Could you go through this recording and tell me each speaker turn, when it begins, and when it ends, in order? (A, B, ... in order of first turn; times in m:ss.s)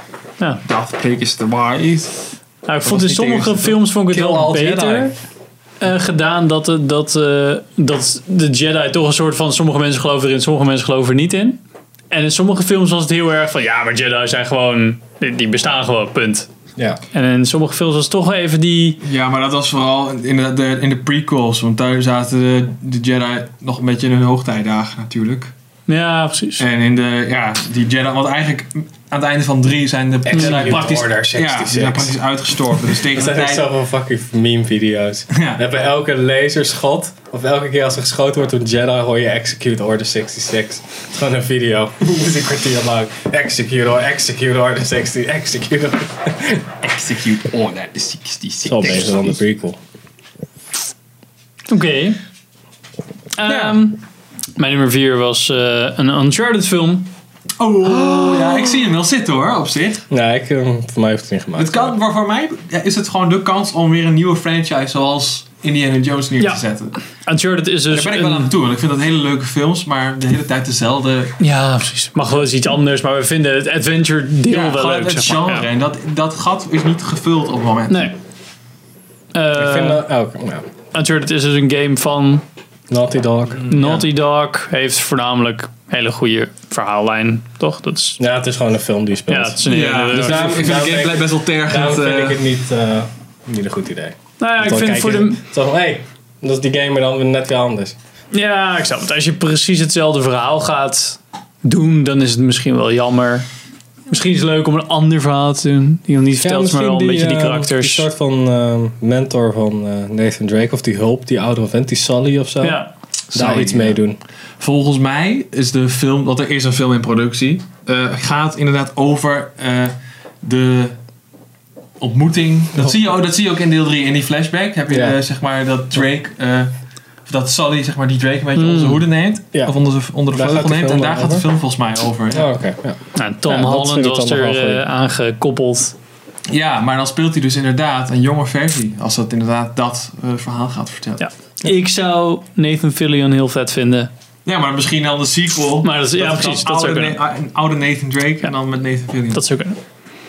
0:00.6-0:05.0 A
0:02.6-0:05.1 B
0:05.8-0:11.6 B
0:12.1-0:16.5 B
0:17.1-0:19.0 B
0:19.0-0:25.5 A
0:25.9-0:26.6 B
0:26.6-0:33.7 A
0:30.2-0:32.2 C
0:32.9-0:46.6 C
0:35.3-0:35.6 A
0:46.8-0:49.4 A
0:48.6-0:49.8 C
0:51.7-0:52.2 B
0:53.4-0:54.0 B
0:53.5-0:53.8 A
0:54.6-0:57.1 B
0:57.6-1:00.0 A
0:57.9-0:58.8 B
1:00.1-1:01.9 C
1:01.6-1:07.0 A
1:06.4-1:08.5 B
1:07.9-1:11.4 A
1:11.4-1:15.7 B
1:14.5-1:18.1 A
1:17.9-1:18.2 B
1:19.3-1:20.0 B
1:19.5-1:20.7 C
1:20.9-1:22.4 B
1:22.9-1:23.6 C
1:23.5-1:24.1 A
1:23.7-1:28.2 B
1:28.2-1:38.0 C
1:29.3-1:30.6 B
1:29.7-1:32.4 A
1:34.4-1:35.4 B
1:38.3-1:43.4 B
1:44.1-1:48.1 B
1:46.4-1:52.8 C
1:52.6-1:52.9 B
1:53.3-1:54.0 A
1:53.3-1:54.2 C
1:54.6-2:01.0 A
2:02.0-2:06.7 A
2:04.9-2:05.2 C
2:07.2-2:12.5 A
2:08.6-2:09.0 B
2:10.3-2:11.4 C
2:12.3-2:14.8 C
2:13.2-2:15.9 B
2:16.5-2:21.2 A
2:21.2-2:24.1 B
2:24.4-2:29.4 A
2:25.8-2:27.2 B
2:29.3-2:29.8 B